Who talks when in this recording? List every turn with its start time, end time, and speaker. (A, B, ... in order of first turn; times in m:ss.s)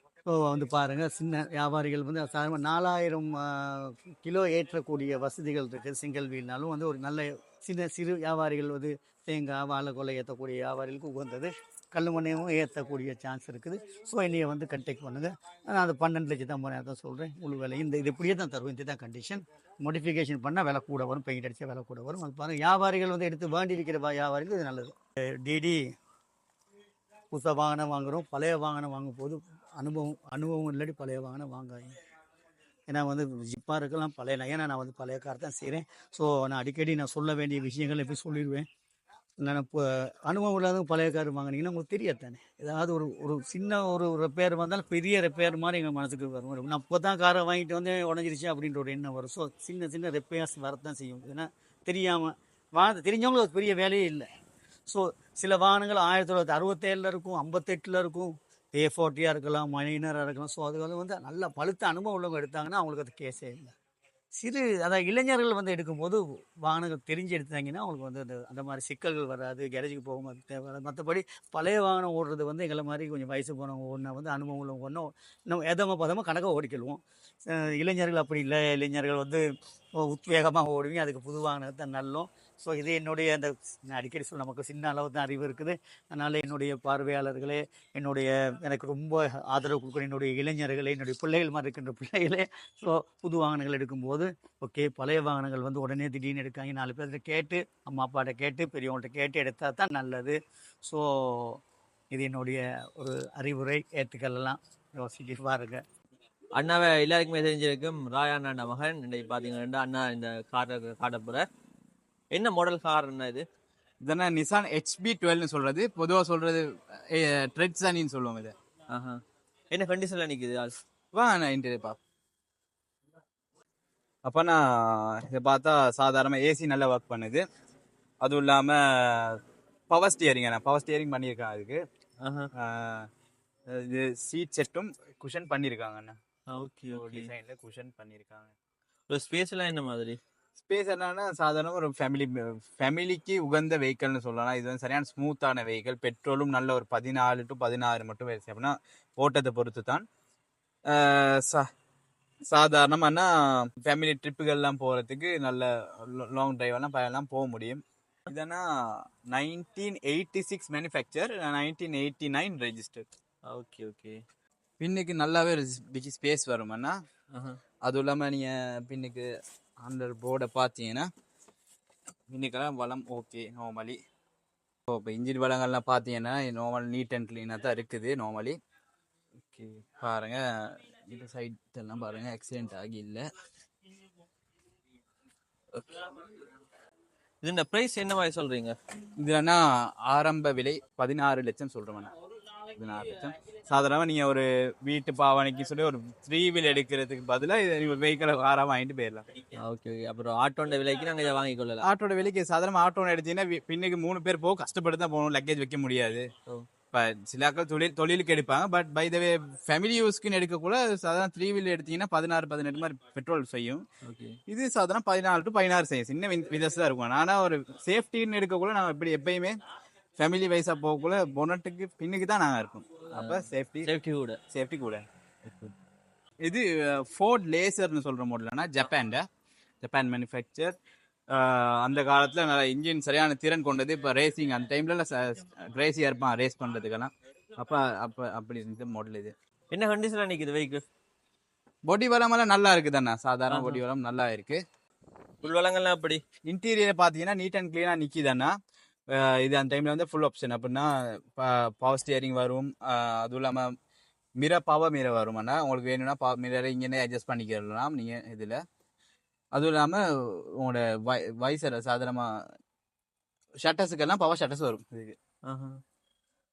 0:00.3-0:25.9 A
0:27.3-0:32.0 A
0:32.9-0:38.7 A
0:39.4-0:54.3 A
0:54.9-1:03.7 A
1:04.4-1:41.6 A
1:42.1-1:45.8 A
1:46.6-1:51.5 B
1:52.3-1:53.4 B
1:54.0-1:58.5 C
1:58.9-1:59.2 B
1:59.7-2:00.8 B
2:01.1-2:02.0 C
2:04.3-2:07.4 C
2:08.2-2:11.8 C
2:12.2-2:12.5 B
2:12.6-2:13.1 C
2:13.7-2:16.2 C
2:16.5-2:17.3 B
2:16.9-2:18.5 C
2:19.1-2:20.2 B
2:20.6-2:30.0 C
2:30.9-2:31.7 C
2:32.5-2:43.1 C
2:43.5-2:44.2 B
2:44.8-2:47.0 C
2:47.3-2:47.6 B
2:47.8-2:49.3 C
2:49.8-2:51.1 C
2:52.3-2:54.0 C
2:54.9-2:58.6 C
2:59.5-2:59.8 B
3:00.0-3:03.3 C
3:07.4-3:08.8 B
3:09.2-3:12.1 C
3:12.7-3:19.3 C
3:19.6-3:21.8 B
3:21.8-3:26.3 C
3:26.9-3:33.8 C
3:34.0-3:34.4 B
3:34.5-3:39.6 C
3:40.2-3:43.9 C
3:43.2-3:44.4 B
3:44.5-3:45.0 C
3:45.4-3:45.7 B
3:46.4-3:49.3 C
3:49.8-3:50.8 C
3:51.3-3:59.3 C
3:59.7-4:00.8 B
4:01.9-4:04.6 C
4:03.5-4:03.8 B
4:05.4-4:06.2 B
4:06.5-4:08.5 C
4:09.1-4:13.6 C
4:14.4-4:18.6 C
4:19.6-4:22.3 C
4:23.6-4:25.2 C
4:25.5-4:25.8 B